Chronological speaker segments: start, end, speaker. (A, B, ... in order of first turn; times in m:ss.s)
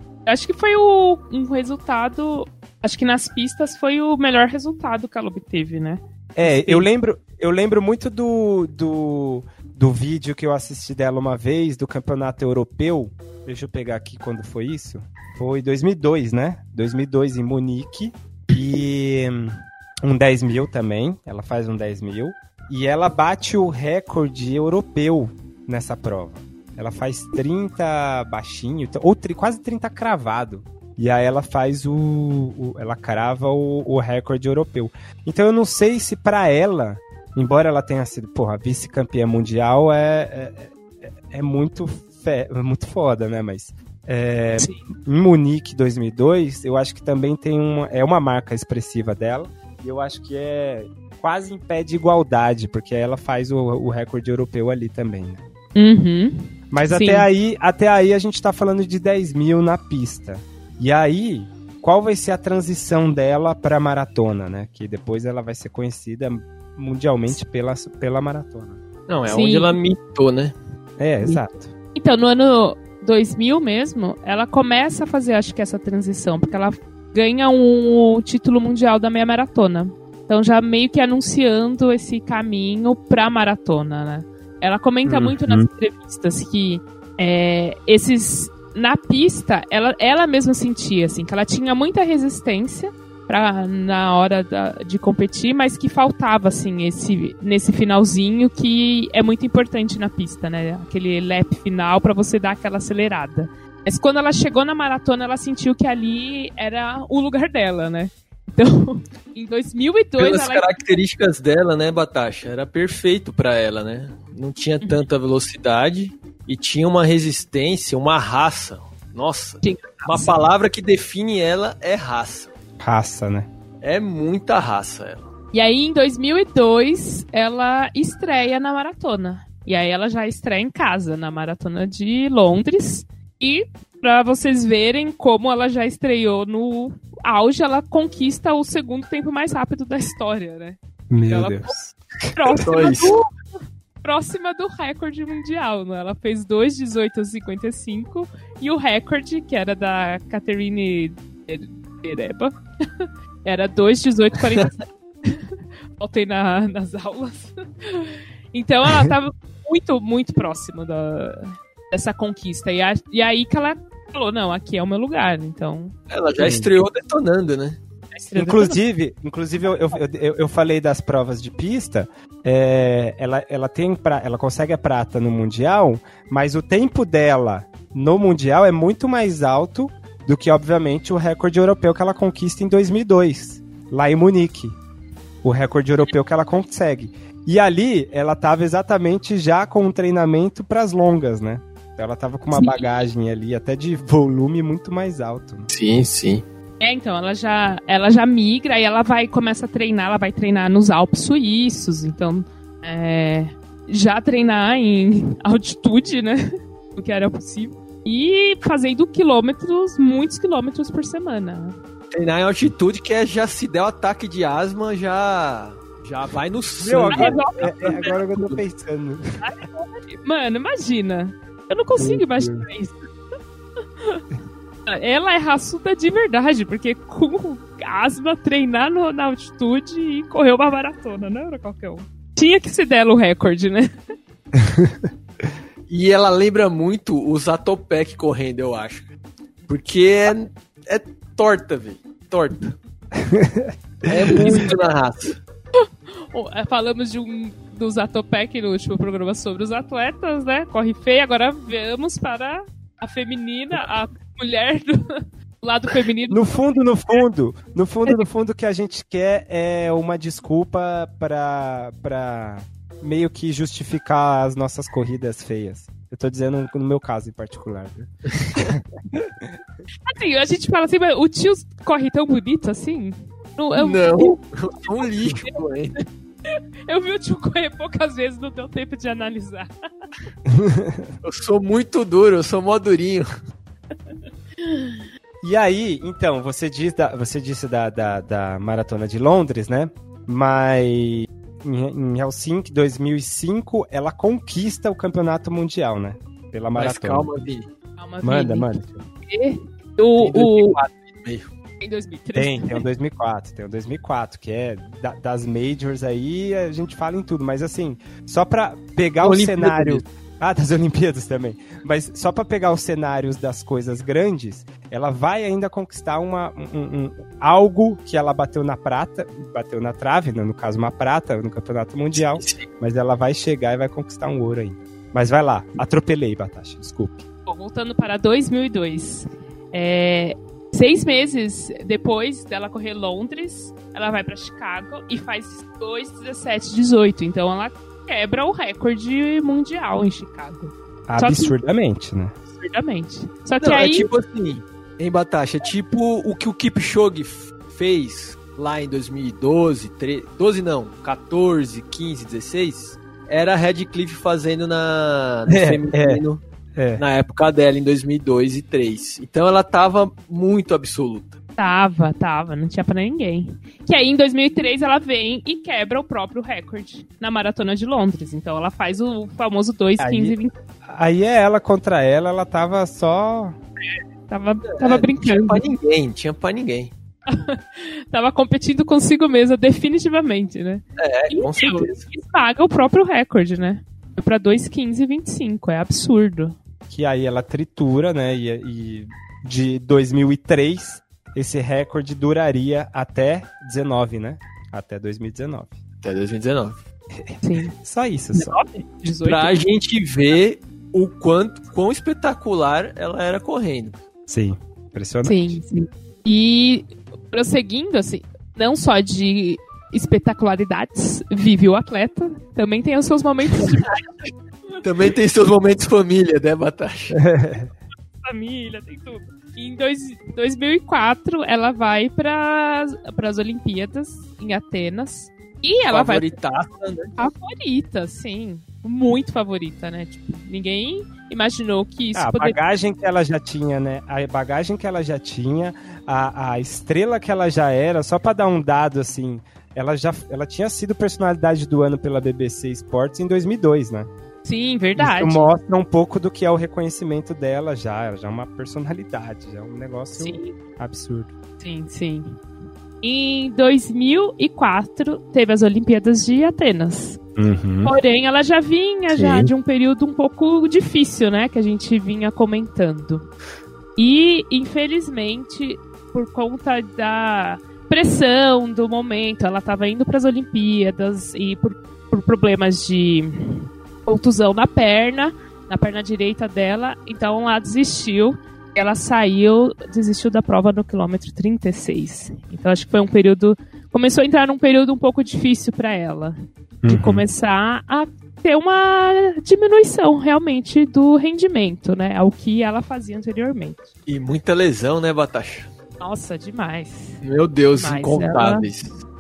0:00.2-0:06.9 A
0:06.4-0:55.4 B
0:44.6-0:44.8 A
0:55.8-0:57.2 A
0:56.7-1:08.8 B
1:09.1-1:10.5 C
1:09.3-1:09.8 A
1:11.0-1:11.7 B
1:11.2-1:50.9 A
1:25.0-1:25.7 B
1:50.2-2:02.5 C
1:59.6-2:00.4 A
2:02.8-2:03.5 B
2:03.8-2:05.3 C
2:05.5-2:21.8 A
2:21.1-2:21.8 B
2:22.3-2:23.3 A
2:22.6-2:23.1 C
2:24.0-2:45.9 A
2:46.1-2:47.8 C
2:46.4-2:46.7 B
2:48.1-2:48.8 A
2:48.4-3:04.8 B
2:49.7-2:50.0 A
3:05.4-3:15.7 B
3:12.5-3:13.0 A
3:15.7-3:16.4 C
3:16.8-3:26.4 A
3:26.9-3:31.8 A
3:32.1-3:38.6 C
3:36.8-3:39.4 B
3:37.1-3:38.2 A
3:39.4-3:43.1 A
3:42.0-3:42.6 B
3:44.9-3:53.9 A
3:54.6-3:55.1 B
3:55.9-3:59.1 C
3:59.7-4:02.8 C
4:03.2-4:04.7 B
4:04.1-4:05.4 C
4:05.8-4:17.2 A
4:16.3-4:29.5 B
4:30.1-4:34.4 A
4:33.8-4:35.9 C
4:35.0-4:35.5 A
4:36.9-4:39.7 A
4:40.5-4:41.1 B
4:41.2-4:43.3 C
4:44.6-4:45.0 A
4:45.4-4:57.3 B
4:56.8-4:57.7 C
4:58.0-4:58.7 A
4:58.2-4:59.0 B
4:59.2-5:00.8 A
5:00.2-5:01.5 C
5:01.8-5:02.8 A
5:02.4-5:27.2 B
5:09.2-5:10.0 C
5:22.1-5:22.6 C
5:27.5-5:41.5 A
5:41.1-5:42.4 B
5:42.6-5:44.1 A
5:43.6-5:56.4 C
5:55.5-5:56.2 B
5:56.7-5:57.0 B
5:57.0-6:01.4 C
6:01.6-6:10.5 A
6:10.0-6:13.6 B
6:14.3-6:15.7 A
6:14.8-6:16.9 C
6:17.3-6:26.6 A
6:21.0-6:22.1 C
6:26.9-6:35.8 B
6:36.0-6:36.8 C
6:37.1-6:38.6 B
6:37.4-6:37.7 A
6:38.3-6:39.6 A
6:39.2-6:44.0 C
6:44.3-6:45.6 B
6:45.2-6:54.0 A
6:54.8-6:57.2 C
6:57.2-6:57.7 B
6:58.2-7:06.3 A
7:05.9-7:07.1 C
7:07.2-7:12.6 A
7:12.1-7:24.1 B
7:24.4-7:25.5 A
7:25.0-7:31.3 B
7:30.1-7:30.6 A
7:31.6-7:32.4 A
7:33.0-7:37.2 A
7:37.4-7:37.9 B
7:37.8-7:43.3 A
7:39.1-7:39.5 B
7:44.0-8:06.4 A
8:06.8-8:07.2 B
8:06.9-8:13.9 A
8:14.1-8:15.7 C
8:16.0-8:17.2 A
8:17.2-8:19.0 C
8:17.7-8:18.7 A